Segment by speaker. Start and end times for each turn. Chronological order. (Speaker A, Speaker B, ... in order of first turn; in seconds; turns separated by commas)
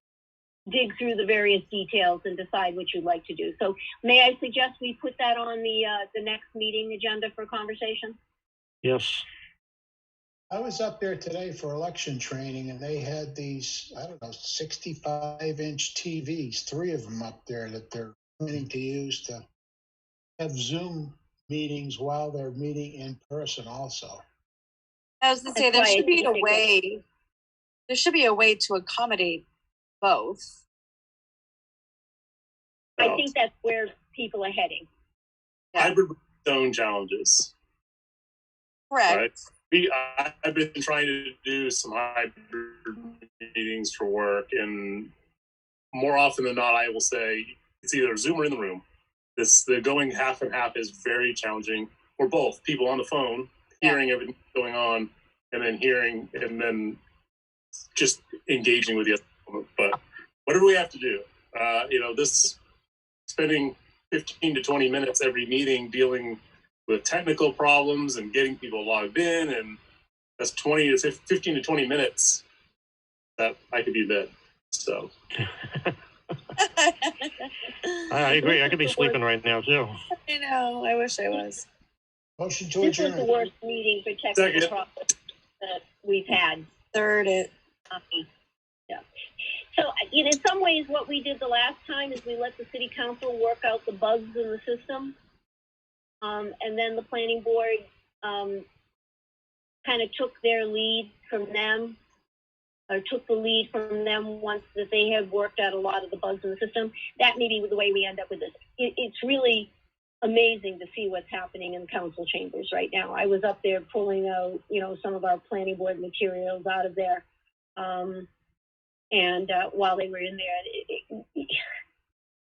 Speaker A: 0.7-8.2, Speaker B: 8.8-9.2, Speaker C: 10.5-19.4, Speaker C: 20.4-24.2, Speaker D: 25.2-27.0, Speaker A: 25.5-26.6, Speaker D: 27.9-29.4, Speaker D: 30.0-30.5, Speaker A: 33.0-34.9, Speaker E: 35.8-37.5, Speaker D: 38.9-39.2, Speaker E: 39.1-45.1, Speaker E: 45.9-48.8, Speaker E: 49.4-57.0, Speaker E: 57.9-62.6, Speaker E: 63.3-69.8, Speaker E: 70.4-72.4, Speaker E: 73.4-75.1, Speaker B: 75.4-75.9, Speaker D: 76.6-78.5, Speaker B: 78.1-79.9, Speaker D: 80.2-81.7, Speaker C: 82.4-83.3, Speaker A: 82.8-85.0, Speaker E: 84.3-84.7, Speaker A: 85.6-86.7, Speaker D: 86.9-87.5, Speaker A: 87.9-88.2, Speaker A: 89.7-95.1, Speaker A: 96.2-98.6, Speaker A: 99.8-102.0, Speaker A: 102.9-109.7, Speaker A: 110.2-117.2, Speaker A: 117.8-118.3, Speaker A: 119.1-121.6